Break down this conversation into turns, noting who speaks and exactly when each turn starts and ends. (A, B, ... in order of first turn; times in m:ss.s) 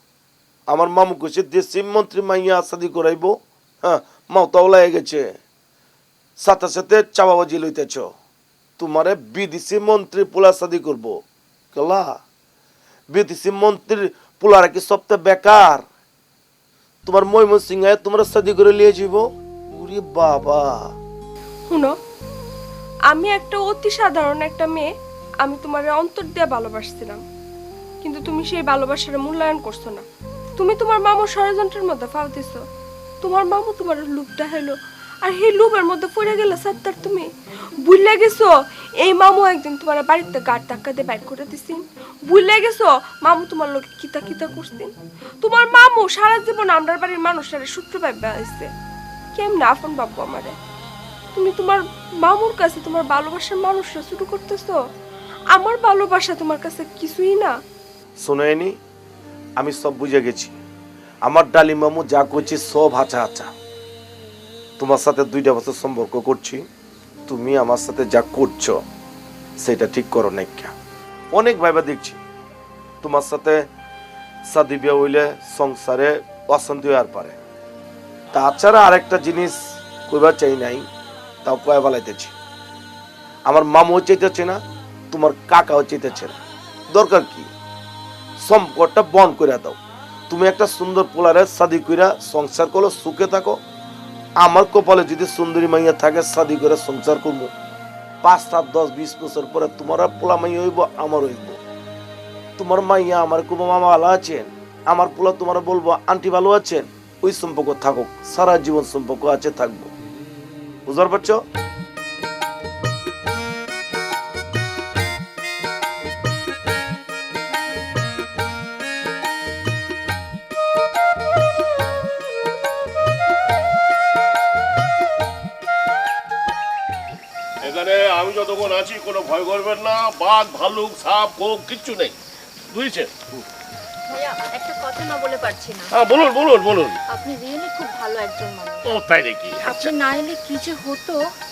0:00.7-0:05.3 A
0:06.4-0:08.1 A
0:08.8-0:11.2 A
0:11.7-0:12.2 A
0:13.1-0:15.8 A
0:17.0-0:20.8 A
0:23.1-0:24.9 B
0:25.4-0:27.2 B
0:28.0-0:30.0 B
0:30.6-0:32.6 B
0:33.2-0:37.3 B
0:37.8-0:48.7 B
0:49.3-0:50.5 B
0:51.3-0:54.8 B
0:55.5-0:57.5 B
0:58.2-0:58.7 A
0:59.6-1:00.5 A
1:01.2-1:03.5 A
1:04.8-1:06.6 A
1:07.3-1:08.8 A
1:09.6-1:10.7 A
1:11.3-1:12.2 A
1:13.0-1:13.6 A
1:14.5-1:17.4 A
1:18.3-1:20.8 A
1:21.4-1:22.3 A
1:23.4-1:24.6 A
1:25.1-1:26.4 A
1:26.9-1:27.5 A
1:28.4-1:29.8 A
1:30.3-1:33.6 A
1:34.4-1:37.5 A
1:38.2-1:41.6 A
1:42.6-1:49.9 A
1:50.9-1:51.4 A
2:07.6-2:12.1 C
2:12.7-2:13.1 C
2:14.1-2:15.9 D
2:16.1-2:17.0 C
2:17.1-2:18.8 D
2:18.9-2:19.7 C
2:19.6-2:21.2 D